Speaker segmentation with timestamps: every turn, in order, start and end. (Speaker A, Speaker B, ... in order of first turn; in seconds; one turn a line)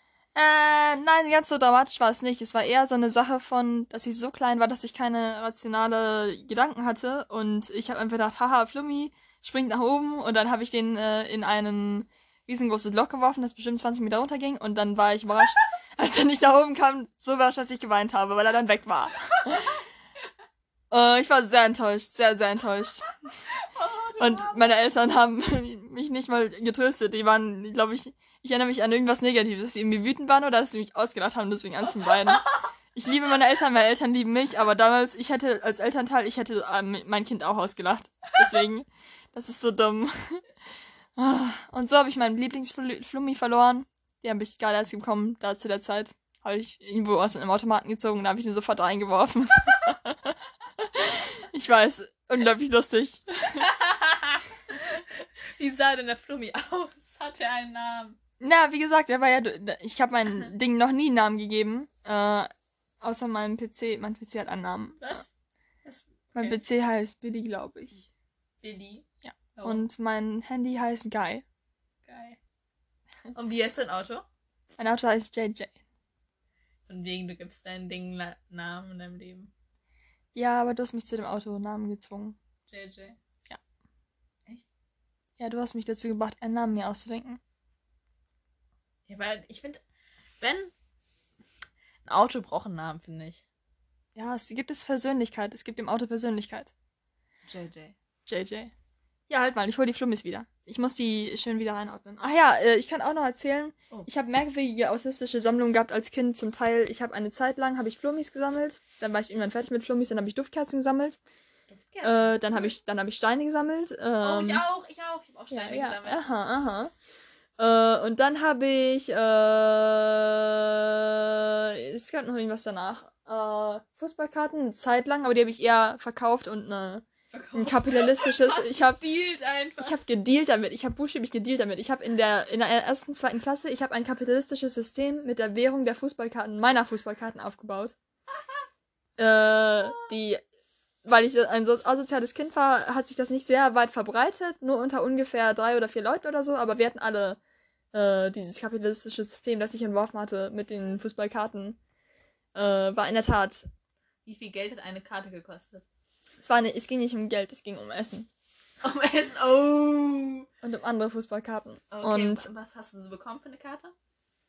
Speaker A: 0.3-19.8
Speaker A: 20.9-23.1
Speaker B: 23.6-24.8
Speaker A: 24.2-40.4
Speaker B: 32.3-32.5
Speaker A: 41.1-53.7
Speaker B: 53.6-58.2
Speaker A: 58.4-62.5
Speaker A: 63.0-65.2
Speaker B: 65.0-65.3
Speaker B: 65.8-66.6
Speaker A: 66.3-68.1
Speaker B: 68.6-69.8
Speaker A: 69.2-71.4
Speaker B: 72.0-72.4
Speaker B: 73.3-74.2
Speaker A: 74.8-75.7
Speaker B: 76.9-79.5
Speaker A: 80.3-82.4
Speaker B: 82.7-83.2
Speaker A: 85.4-87.4
Speaker B: 89.1-89.8
Speaker B: 90.4-90.7
Speaker B: 92.0-93.4
Speaker A: 94.2-96.7
Speaker B: 97.4-97.9
Speaker A: 98.3-98.7
Speaker A: 99.3-111.2
Speaker B: 111.7-112.7
Speaker A: 112.0-114.6
Speaker B: 114.2-116.3
Speaker A: 115.5-116.9
Speaker A: 117.6-129.0
Speaker B: 127.3-130.0
Speaker A: 129.8-137.9
Speaker A: 139.2-140.4
Speaker A: 141.0-147.4
Speaker A: 147.9-151.8
Speaker A: 152.5-153.7
Speaker B: 154.2-155.8
Speaker A: 156.4-158.3
Speaker B: 158.8-160.5
Speaker A: 160.6-162.5
Speaker B: 161.9-163.9